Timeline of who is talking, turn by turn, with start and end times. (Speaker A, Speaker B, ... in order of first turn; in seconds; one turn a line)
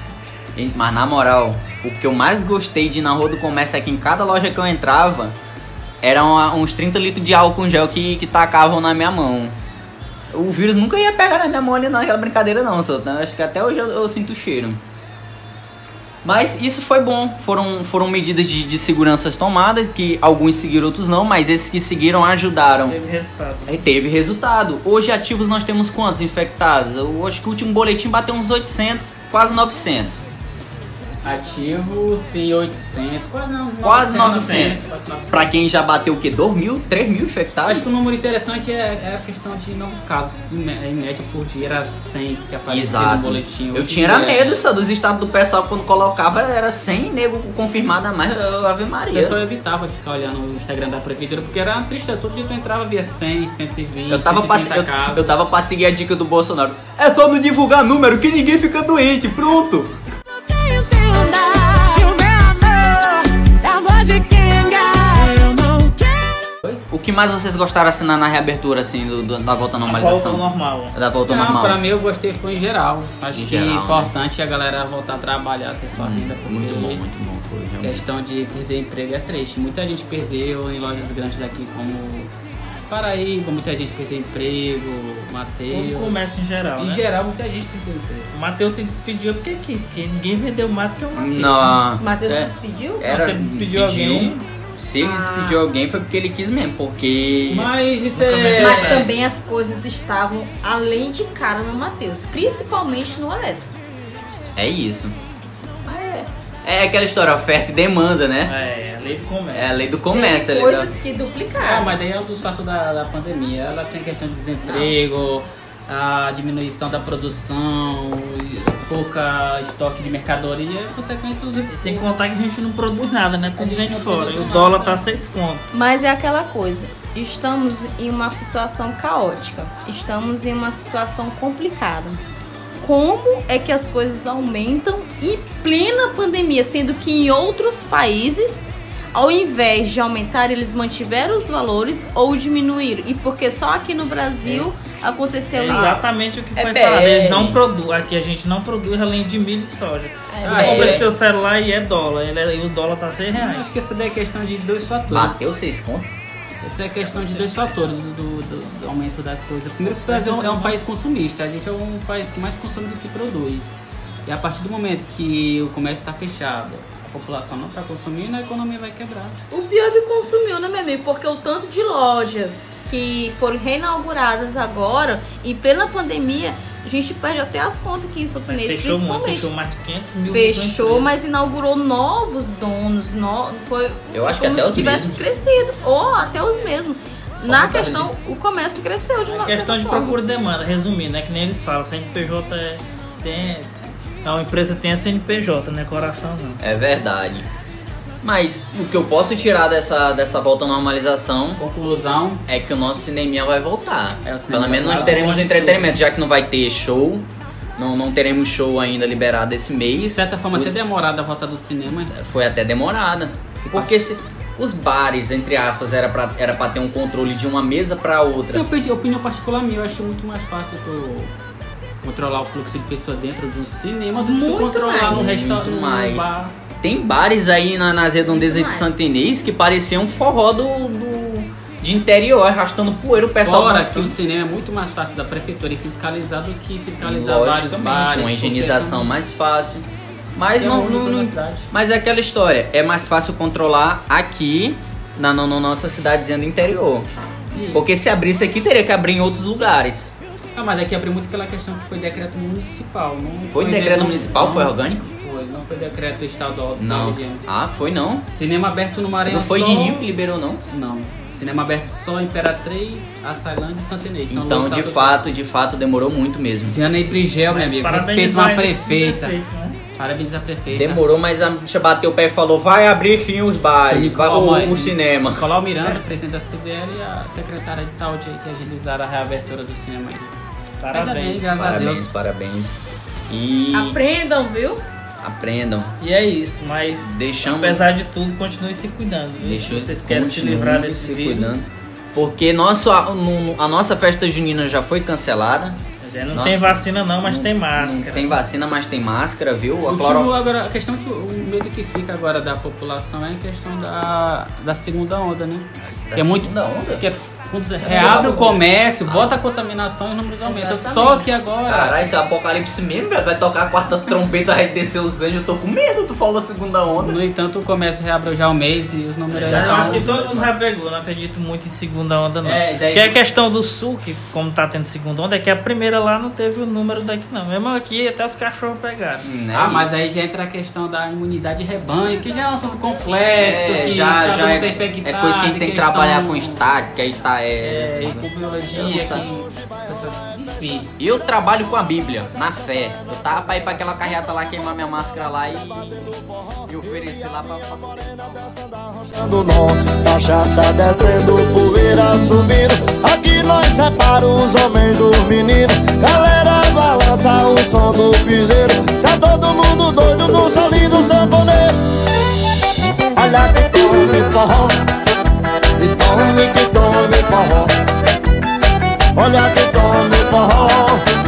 Speaker A: 0.5-5.4
Speaker A: 6.0-9.6
Speaker A: 10.3-14.8
Speaker A: 16.2-23.0
Speaker B: 22.9-23.8
Speaker A: 23.6-30.2
Speaker C: 31.2-35.5
Speaker A: 33.8-37.9
Speaker B: 34.2-34.8
Speaker C: 37.6-44.6
Speaker A: 42.7-49.4
Speaker C: 49.1-55.2
Speaker A: 54.1-59.9
Speaker A: 66.9-71.8
Speaker B: 69.8-70.9
Speaker C: 71.2-77.0
Speaker A: 73.3-74.1
Speaker A: 75.9-78.0
Speaker C: 77.8-82.3
Speaker C: 82.9-86.2
Speaker B: 85.7-87.0
Speaker C: 86.8-88.3
Speaker B: 88.3-91.8
Speaker A: 91.1-97.7
Speaker D: 91.9-93.1
Speaker B: 93.1-94.4
Speaker D: 95.0-95.6
Speaker C: 97.5-99.1
Speaker B: 98.0-99.1
Speaker D: 98.5-103.7
Speaker A: 104.5-105.2
Speaker A: 105.9-108.5
Speaker B: 108.5-109.8
Speaker A: 109.5-110.9
Speaker D: 110.1-112.0
Speaker C: 111.6-122.0
Speaker D: 114.7-115.0
Speaker B: 121.7-125.6
Speaker C: 123.6-125.0
Speaker D: 125.7-132.2
Speaker D: 132.8-147.4
Speaker B: 145.5-150.1
Speaker A: 146.7-147.6
Speaker D: 150.3-151.1
Speaker C: 150.4-151.1
Speaker A: 150.5-151.0
Speaker B: 150.7-153.6
Speaker C: 153.3-155.4
Speaker A: 155.1-156.1
Speaker C: 156.6-169.4
Speaker B: 157.0-157.8
Speaker B: 160.1-160.8
Speaker D: 169.5-179.5
Speaker B: 178.5-181.1
Speaker D: 180.3-190.2
Speaker A: 184.1-185.2
Speaker A: 187.4-188.1
Speaker B: 189.3-193.7
Speaker B: 194.2-196.6
Speaker A: 196.6-197.5
Speaker A: 198.2-201.6
Speaker C: 201.6-202.4
Speaker A: 202.5-210.8
Speaker C: 204.2-205.9
Speaker C: 210.1-212.1
Speaker A: 212.1-218.6
Speaker C: 213.7-214.1
Speaker C: 218.4-221.3
Speaker C: 222.0-226.5
Speaker D: 224.2-225.2
Speaker A: 225.1-226.3
Speaker A: 226.8-234.2
Speaker D: 228.2-228.9
Speaker C: 233.4-239.1
Speaker A: 237.0-247.1
Speaker C: 240.6-241.7
Speaker C: 247.5-247.8
Speaker A: 247.7-250.1
Speaker C: 250.5-257.4
Speaker A: 253.5-255.0
Speaker A: 256.8-258.2
Speaker C: 258.2-260.1
Speaker A: 259.3-260.6
Speaker C: 260.7-265.2
Speaker A: 264.3-266.8
Speaker C: 266.7-269.4
Speaker B: 267.5-269.8
Speaker C: 270.0-271.0
Speaker A: 270.7-275.5
Speaker C: 273.9-280.4
Speaker B: 280.8-281.5
Speaker C: 280.9-282.1
Speaker A: 281.6-282.8
Speaker A: 283.3-284.0
Speaker D: 283.7-284.8
Speaker A: 285.2-285.9
Speaker B: 286.0-291.7
Speaker A: 287.0-287.9
Speaker A: 289.4-295.8
Speaker B: 296.0-298.4
Speaker A: 296.3-300.3
Speaker C: 299.9-312.0
Speaker A: 306.1-307.1
Speaker A: 307.8-309.4
Speaker D: 310.4-311.4
Speaker A: 311.6-317.2
Speaker C: 316.9-320.1
Speaker A: 319.3-320.5
Speaker B: 319.5-329.2
Speaker C: 322.4-323.0
Speaker A: 322.5-323.1
Speaker A: 329.2-330.0
Speaker C: 329.5-336.7
Speaker A: 333.4-339.2
Speaker C: 337.6-340.9
Speaker E: 339.7-340.0
Speaker A: 341.0-348.4
Speaker E: 342.8-344.6
Speaker E: 345.2-361.8
Speaker E: 363.1-364.8
Speaker E: 365.8-367.7
Speaker E: 369.1-371.0